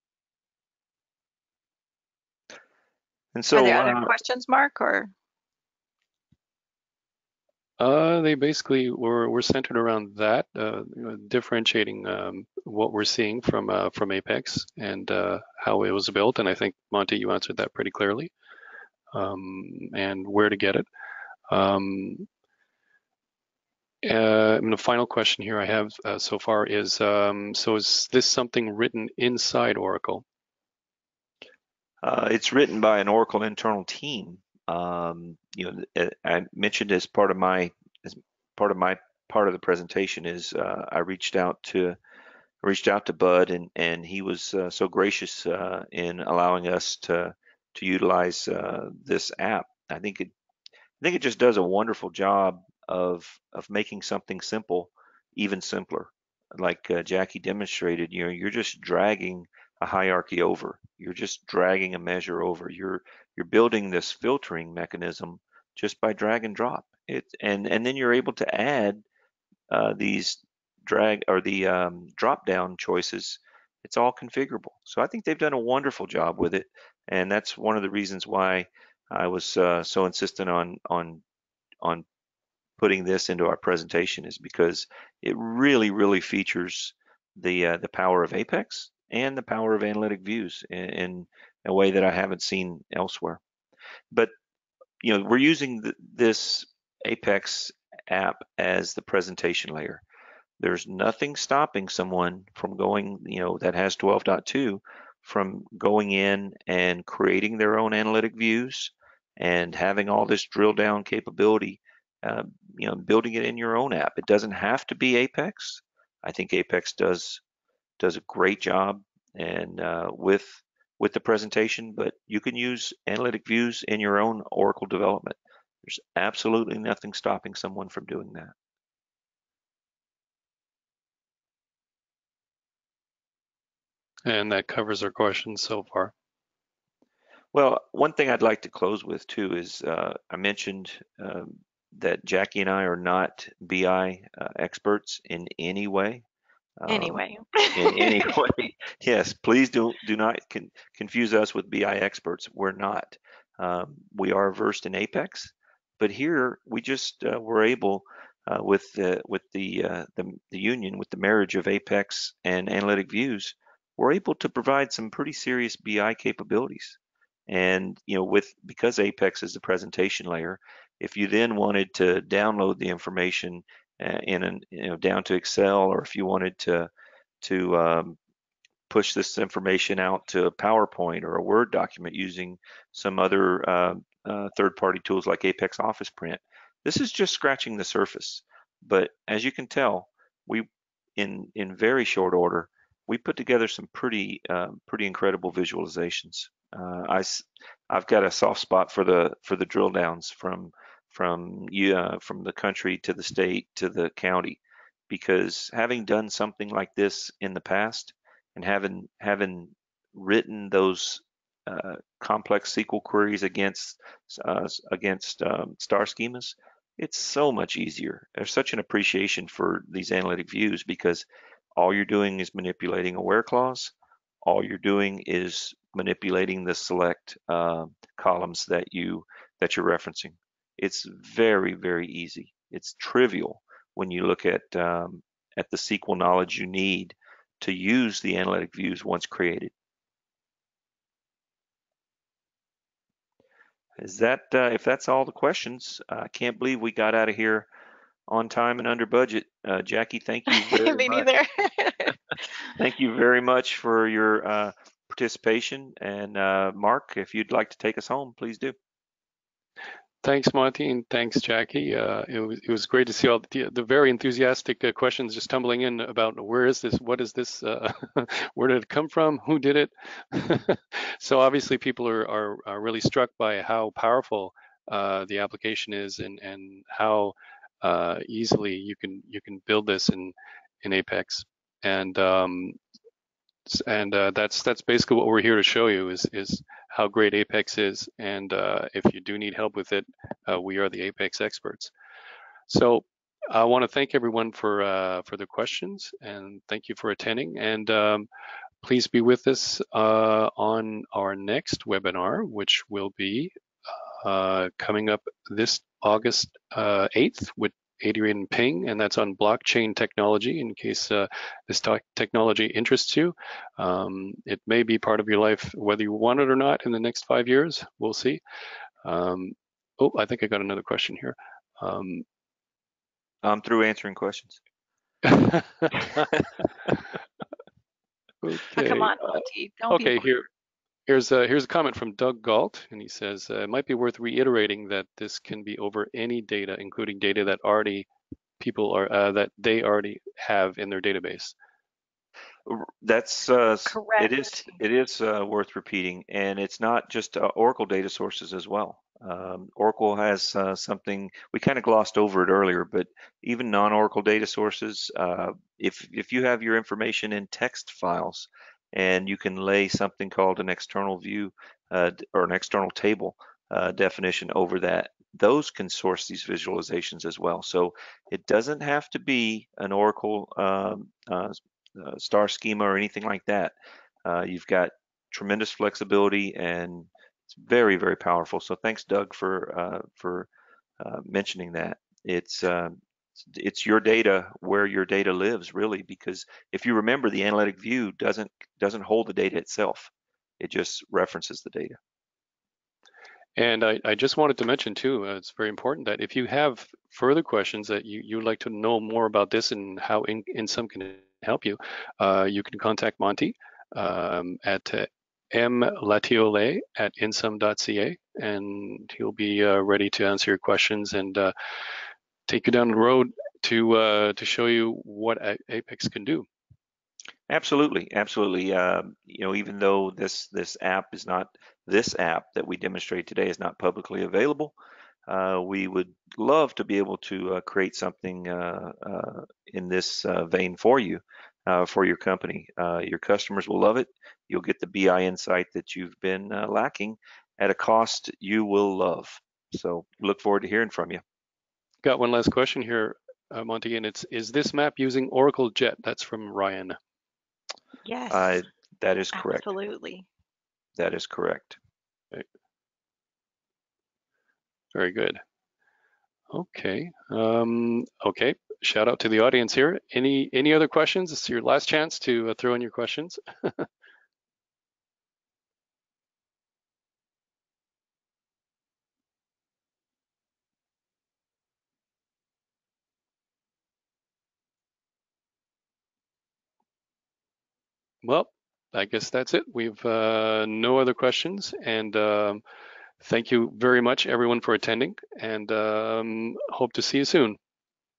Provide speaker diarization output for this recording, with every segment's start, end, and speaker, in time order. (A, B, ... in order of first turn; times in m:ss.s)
0:03.4-0:04.1 A
0:03.5-0:05.1 B
0:07.8-0:18.3 C
0:19.1-0:20.9 C
0:21.5-0:22.3 C
0:24.0-0:30.2 C
0:32.0-0:42.0 A
0:42.6-0:50.3 A
0:51.0-1:09.0 A
1:09.7-1:21.2 A
1:22.8-1:33.4 A
1:35.0-1:40.0 A
1:40.6-1:57.4 A
1:58.0-2:08.5 A
2:14.3-2:16.1 C
2:17.5-2:26.2 A
2:26.8-2:27.2 A
2:26.9-2:28.4 B
2:27.8-2:56.9 A
2:57.4-2:58.2 A
2:58.9-3:41.2 A
3:41.8-3:59.7 A
4:04.0-4:07.7 A
4:08.3-4:11.3 A
4:10.5-4:12.1 B
4:12.7-4:18.8 A
4:20.2-4:42.8 C
4:43.7-4:51.9 C
4:52.7-4:58.3 C
4:58.8-5:03.5 C
5:04.2-5:18.4 C
5:19.0-5:22.3 C
5:23.4-5:24.6 A
5:25.2-5:26.2 C
5:28.4-5:30.4 C
5:28.7-5:30.3 B
5:31.1-5:38.1 C
5:38.6-5:41.6 C
5:42.7-6:13.7 A
5:43.9-5:44.8 B
6:14.2-6:20.5 A
6:21.0-6:23.0 A
6:23.5-6:32.0 A
6:33.6-6:51.5 C
6:52.5-6:56.4 C
6:57.5-7:04.8 A
7:05.3-7:21.2 A
7:22.0-7:27.0 C
7:28.0-7:28.6 B
7:28.3-7:29.7 A
7:29.4-7:30.3 B
7:31.0-7:31.8 A
7:34.9-7:35.4 C
7:36.5-7:43.9 C
7:58.2-8:02.6 C
8:03.2-8:07.6 C